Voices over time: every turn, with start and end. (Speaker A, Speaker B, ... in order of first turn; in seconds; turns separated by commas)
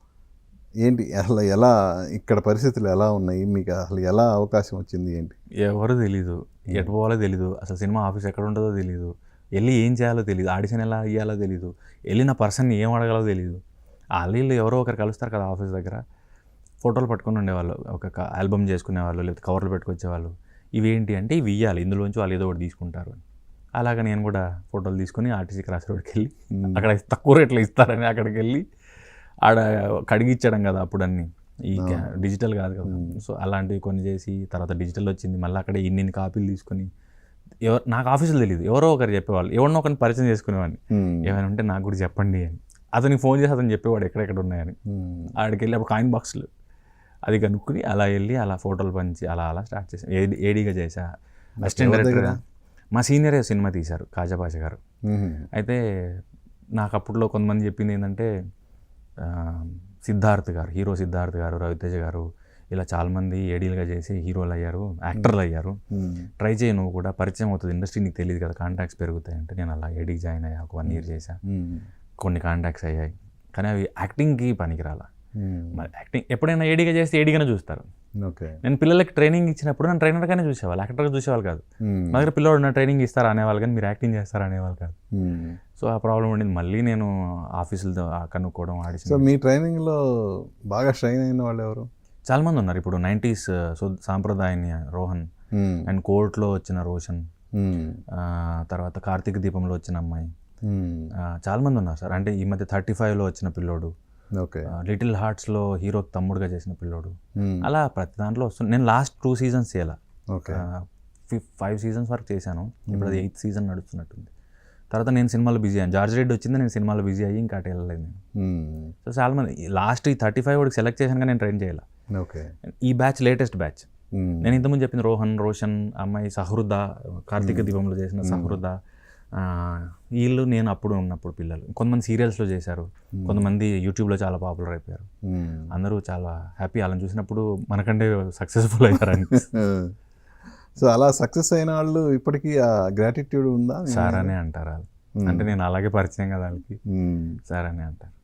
Speaker A: 0.8-5.4, Speaker B: 5.6-13.6, Speaker B: 14.2-16.0, Speaker B: 16.8-23.2, Speaker B: 23.8-28.6, Speaker A: 26.6-26.8, Speaker B: 29.4-36.9, Speaker A: 31.8-32.1, Speaker A: 32.9-33.2, Speaker B: 37.6-44.8, Speaker A: 40.9-41.3, Speaker A: 44.9-45.3, Speaker B: 45.4-46.5, Speaker B: 47.3-51.0, Speaker A: 51.6-52.4, Speaker B: 51.6-52.4, Speaker B: 52.9-54.8, Speaker A: 55.1-55.5, Speaker B: 55.5-55.8, Speaker B: 56.8-58.3, Speaker B: 59.2-65.8, Speaker A: 65.9-66.3, Speaker B: 66.4-71.4, Speaker A: 70.8-71.9, Speaker B: 72.2-75.1, Speaker A: 75.4-75.8, Speaker B: 75.7-77.9, Speaker A: 78.2-78.6, Speaker B: 78.6-85.0, Speaker A: 81.8-82.2, Speaker A: 85.1-85.6, Speaker B: 85.8-89.3, Speaker A: 89.0-91.9, Speaker B: 92.3-95.2, Speaker A: 95.5-95.9, Speaker B: 95.9-97.2, Speaker A: 97.5-98.0, Speaker B: 98.1-100.2, Speaker A: 100.7-101.1, Speaker B: 101.3-103.9, Speaker A: 104.4-104.7, Speaker B: 104.7-110.0, Speaker A: 107.4-107.7, Speaker A: 110.3-110.6, Speaker B: 110.5-114.3, Speaker A: 112.9-113.2, Speaker B: 114.9-118.2, Speaker A: 118.4-118.9, Speaker B: 119.0-121.8, Speaker A: 122.2-122.5, Speaker B: 122.7-123.9, Speaker A: 124.2-124.5, Speaker B: 124.4-128.8, Speaker A: 127.4-128.6, Speaker B: 129.3-135.1, Speaker A: 135.3-135.7, Speaker B: 135.7-139.5, Speaker A: 139.3-139.9, Speaker A: 140.8-144.3, Speaker B: 143.9-146.8, Speaker A: 145.2-145.5, Speaker A: 146.9-147.4, Speaker B: 147.5-148.1